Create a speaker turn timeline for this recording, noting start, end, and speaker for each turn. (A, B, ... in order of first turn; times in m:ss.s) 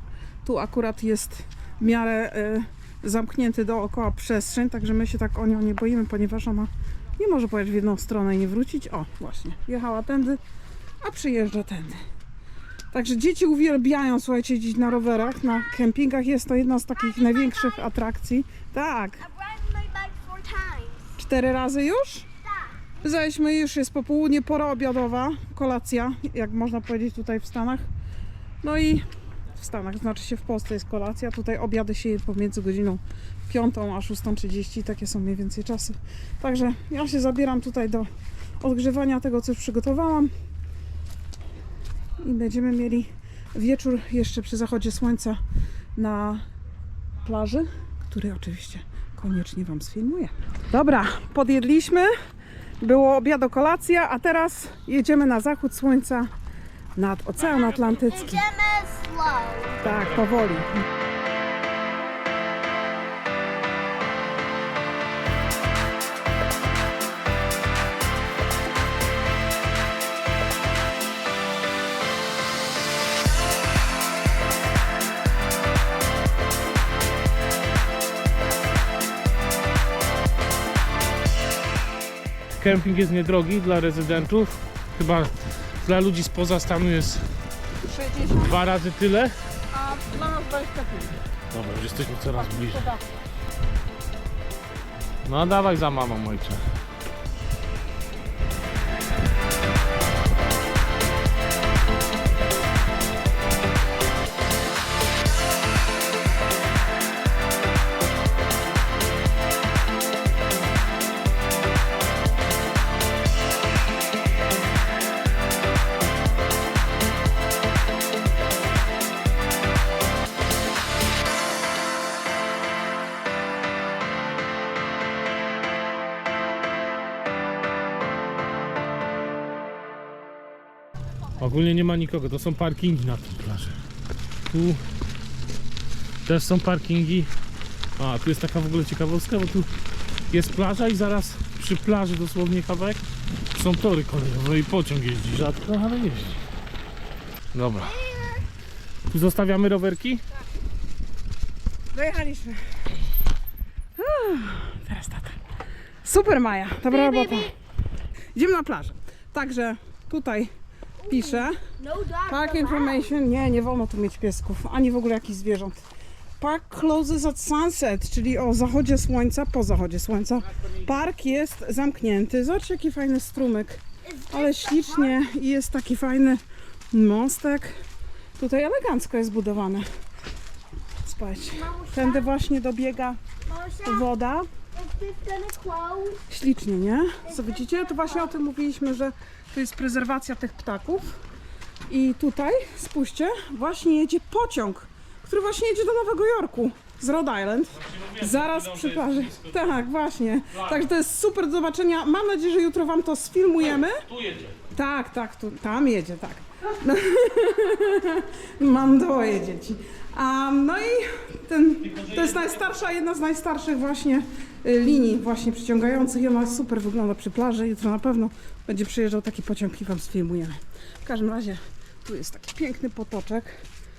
0:00.4-0:10.4 A
0:11.0-0:12.0 A
0:12.9-0:19.3 A
0:17.0-0:17.8 B
0:19.2-0:21.1 B
0:21.2-0:22.3 A
0:23.0-0:27.8 A
0:28.6-0:38.1 A
0:38.6-0:40.3 A
0:42.2-0:45.4 A
0:46.0-0:46.4 A
0:47.2-0:52.1 A
0:52.8-0:56.3 A
0:56.9-0:58.4 A
0:57.4-0:58.4 C
0:58.1-0:59.8 B
0:59.8-1:00.8 A
0:59.8-1:00.2 C
1:22.6-1:27.2 C
1:27.8-1:28.6 A
1:28.4-1:29.3 C
1:29.7-1:31.2 A
1:31.5-1:32.9 C
1:32.3-1:33.0 A
1:35.2-1:36.6 C
2:11.4-2:13.8 C
2:14.5-2:14.8 C
2:16.2-2:17.3 C
2:18.0-2:19.7 C
2:20.3-2:23.0 C
2:23.5-2:26.4 C
2:27.5-2:28.0 C
2:27.8-2:28.4 B
2:29.1-2:30.2 C
2:31.9-2:32.6 A
2:34.0-2:35.4 A
2:36.0-2:37.5 A
2:36.9-2:37.5 B
2:38.3-2:40.5 A
2:41.0-2:43.1 B
2:41.1-2:41.6 A
2:42.2-2:45.8 A
2:46.4-2:57.8 A
2:54.0-2:55.1 B
2:58.4-2:59.8 A
3:01.0-3:03.2 A
3:01.6-3:02.3 B
3:03.5-3:04.0 B
3:03.8-3:04.5 A
3:04.7-3:06.2 B
3:06.3-3:11.1 A
3:07.2-3:08.3 B
3:11.9-3:24.0 A
3:17.8-3:19.7 C
3:20.5-3:20.8 C
3:23.6-3:24.6 C
3:24.7-3:43.6 A
3:31.8-3:32.5 C